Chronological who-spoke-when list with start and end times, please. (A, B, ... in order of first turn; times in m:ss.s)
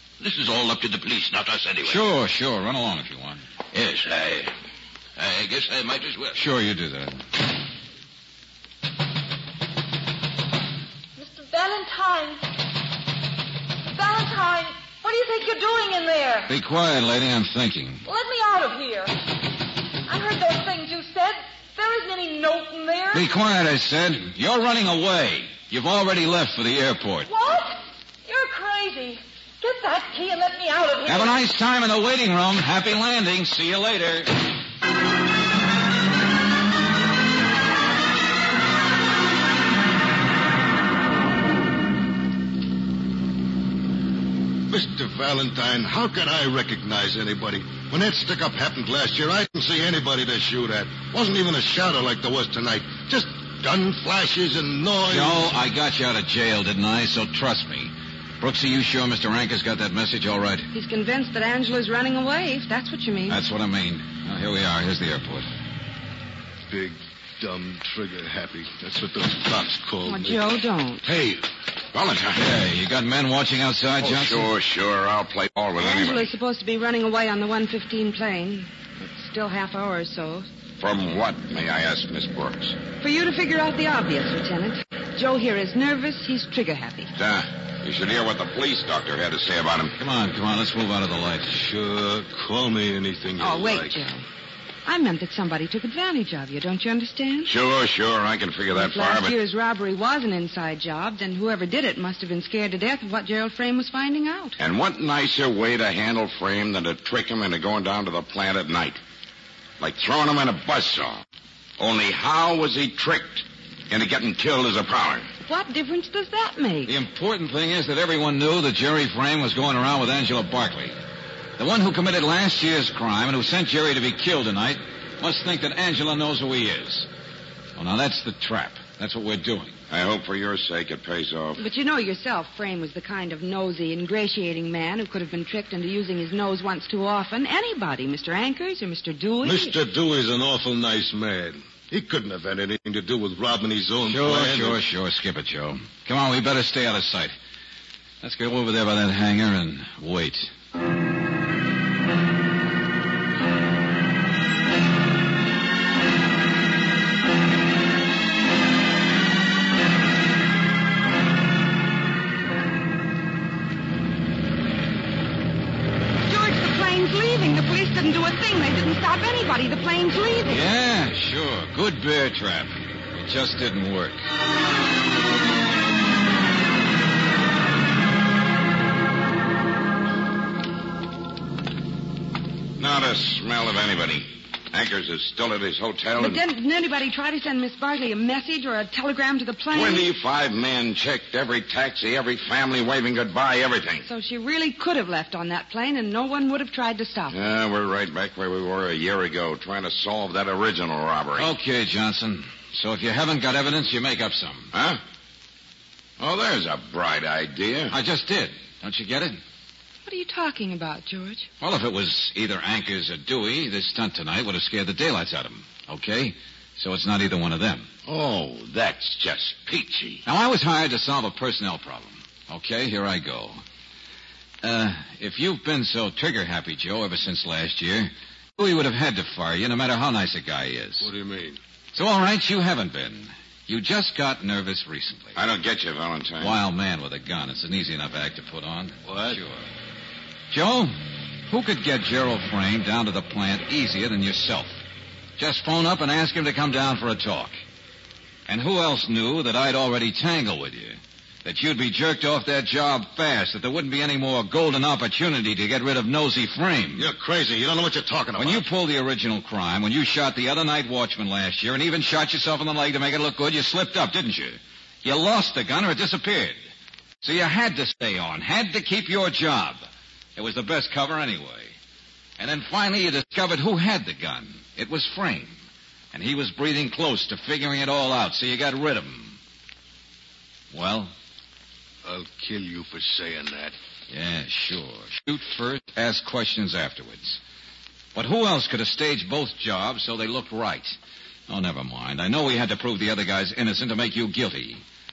0:00.2-0:02.0 A
0:01.8-0:03.4 B
0:03.7-0:04.5 A
0:05.2-0:06.4 A
0:06.3-0:07.2 B
0:11.2-0:12.6 C
0:13.9-0:16.5 C
0:16.5-0:18.0 B
0:18.0-0:19.4 C
0:20.0-0:23.3 C
0:23.1-0:27.3 B
0:27.2-0:31.4 C
0:31.0-0:34.3 B
0:44.7-0:55.5 D
0:55.1-1:00.7 B
1:00.7-1:03.4 E
1:03.3-1:05.5 B
1:06.7-1:10.5 D
1:10.0-1:11.0 E
1:11.1-1:11.4 D
1:11.9-1:12.6 F
1:12.4-1:14.5 B
1:14.0-1:16.3 F
1:15.8-1:20.5 E
1:20.8-1:22.8 F
1:23.0-1:27.1 E
1:27.1-1:30.0 F
1:30.0-1:31.5 B
1:31.5-1:34.0 D
1:33.4-1:34.2 E
1:34.8-1:37.5 E
1:37.4-1:39.4 F
1:38.7-1:44.6 E
1:44.6-1:49.0 F
1:49.8-1:51.2 F
1:51.8-1:55.3 F
1:55.4-1:56.9 E
1:56.8-2:01.0 B
2:01.6-2:07.1 B
2:07.8-2:09.8 B
2:09.9-2:11.6 F
2:11.6-2:19.8 E
2:19.4-2:24.8 D
2:24.0-2:27.3 B
2:28.2-2:30.5 B
2:46.3-2:50.6 E
2:50.5-2:54.2 B
3:02.8-3:06.4 F
3:06.2-3:10.1 E
3:09.7-3:14.1 F
3:14.0-3:17.4 E
3:17.3-3:21.5 F
3:21.4-3:24.7 B
3:24.7-3:25.0 F
3:26.2-3:27.9 F
3:27.9-3:29.4 B
3:30.0-3:31.5 E
3:31.6-3:37.9 B
3:38.0-3:40.2 F
3:40.2-3:43.6 B
3:44.6-3:51.1 B
3:51.0-3:51.6 D
3:51.9-3:55.4 B
3:55.3-3:56.6 F
3:56.4-3:59.7 B
3:59.0-3:59.4 D
4:00.5-4:04.8 B
4:05.4-4:07.6 B
4:08.5-4:17.1 B
4:17.0-4:18.6 D
4:18.4-4:26.6 B
4:27.2-4:29.8 B
4:30.4-4:31.7 B
4:32.4-4:35.6 B
4:36.1-4:39.4 B
4:40.7-4:41.1 B
4:42.0-4:43.7 D
4:44.1-4:47.4 B
4:48.1-4:51.0 B
4:51.5-4:54.8 B